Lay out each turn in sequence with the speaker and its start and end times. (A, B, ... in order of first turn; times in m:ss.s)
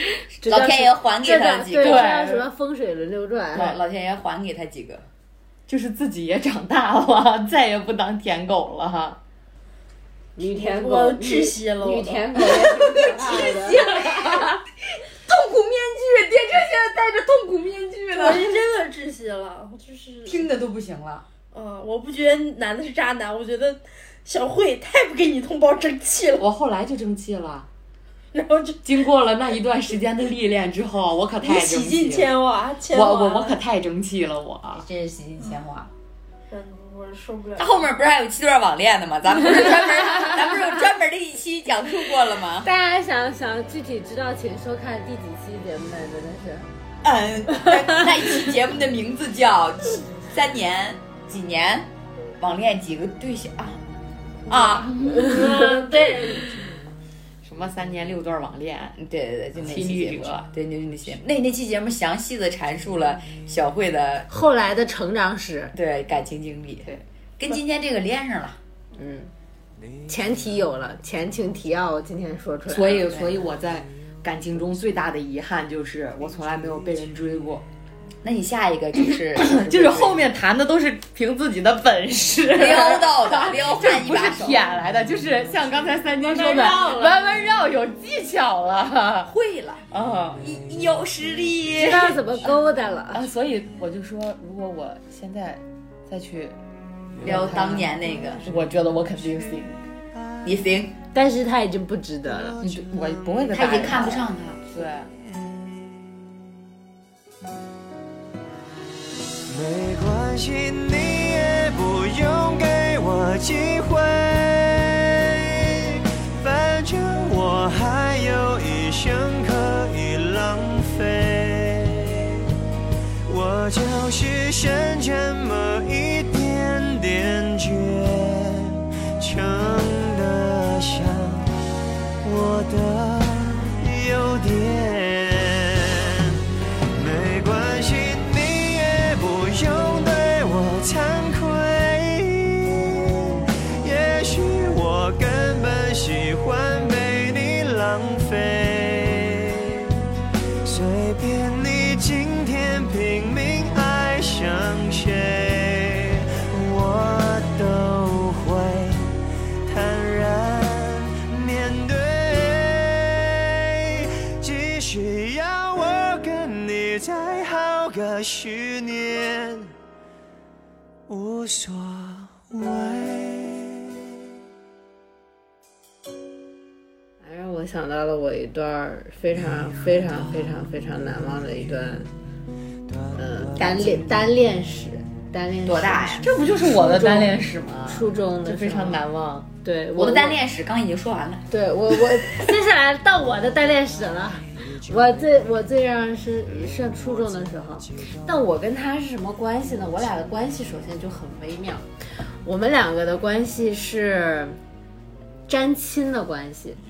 0:00.4-0:03.8 A
0:00.4-0:02.1 B
0:01.8-0:02.4 C
0:03.5-0:05.0 B
0:05.7-0:09.2 C
0:10.4-0:14.5 A
0:10.5-0:13.0 D
0:12.8-0:14.6 B
0:15.2-0:18.6 B
0:18.1-0:20.4 D
0:20.2-0:21.2 B
0:21.5-0:26.4 D
0:26.4-0:27.7 C
0:28.3-0:28.8 D
0:28.8-0:32.4 C
0:31.4-0:33.6 D
0:32.9-0:34.8 C
0:34.7-0:35.9 B
0:36.5-0:37.7 D
0:37.6-0:42.7 B
0:42.6-0:46.7 A
0:47.0-0:53.8 B
0:47.5-0:48.0 A
0:54.5-0:55.6 B
0:55.2-0:56.5 D
0:57.4-0:59.0 C
0:59.0-1:04.3 B
0:59.6-1:00.5 C
1:04.3-1:05.7 A
1:05.7-1:08.6 B
1:09.0-1:09.3 A
1:10.1-1:13.2 A
1:12.7-1:17.6 C
1:18.2-1:20.2 B
1:19.3-1:29.3 C
1:22.5-1:24.7 B
1:26.3-1:27.1 D
1:29.2-1:29.8 B
1:29.9-1:30.4 C
1:30.4-1:32.2 B
1:31.8-1:33.2 A
1:33.1-1:36.6 C
1:37.2-1:39.8 C
1:37.2-1:38.4 B
1:40.4-1:40.9 B
1:41.1-1:42.6 A
1:42.6-1:45.1 C
1:43.5-1:44.6 B
1:49.5-2:02.4 E
2:03.3-2:11.5 E
2:12.2-2:16.4 E
2:16.9-2:29.9 E
2:30.6-2:39.1 E
2:39.6-2:49.7 E
2:51.1-2:53.7 E
2:57.2-3:02.1 A
3:03.1-3:07.3 A
3:05.6-3:06.3 B
3:06.2-3:09.5 C
3:07.9-3:09.0 A
3:09.6-3:10.4 A
3:10.0-3:11.4 B
3:11.5-3:21.8 A
3:22.4-3:24.6 A
3:25.5-3:26.8 A